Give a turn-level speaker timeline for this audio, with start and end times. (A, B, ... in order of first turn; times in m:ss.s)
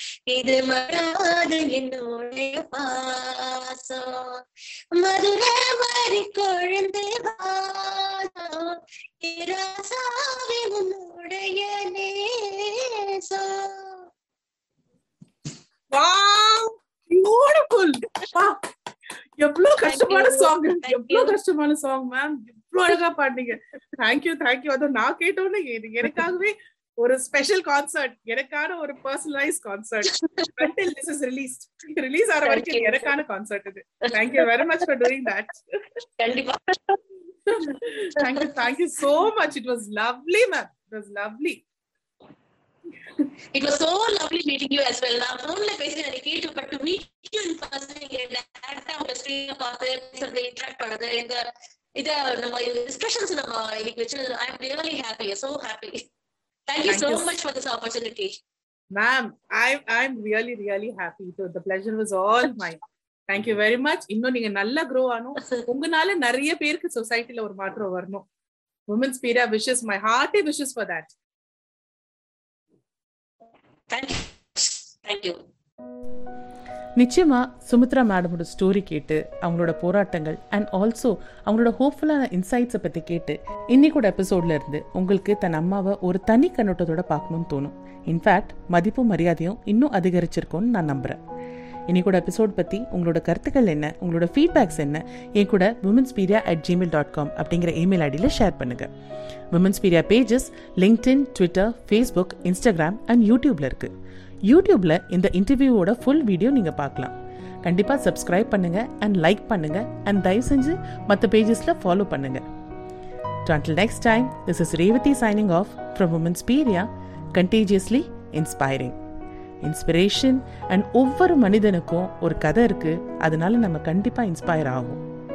0:00.3-0:04.4 A
0:05.0-0:14.1 A
0:15.9-0:18.6 B
0:19.4-0:35.6 B
0:19.8-0:21.4 A
0:30.1-0:30.6 A
0:32.4-0:33.2 A
0:34.0-0:34.9 A
0:36.2-0:37.0 A
0:37.5-0:41.6 B
0:38.2-0:38.6 A
0:43.6-0:51.5 A
0:52.0-0:56.0 A
0:56.7-0:58.3 A
0:56.9-0:57.3 B
0:58.9-1:08.2 B
1:08.9-1:11.1 B
1:13.9-1:15.4 A
1:17.0-1:31.2 C
1:31.9-1:38.9 C
1:39.5-1:43.9 C
1:44.5-1:52.4 C
1:53.5-1:59.0 C
1:59.6-2:05.0 C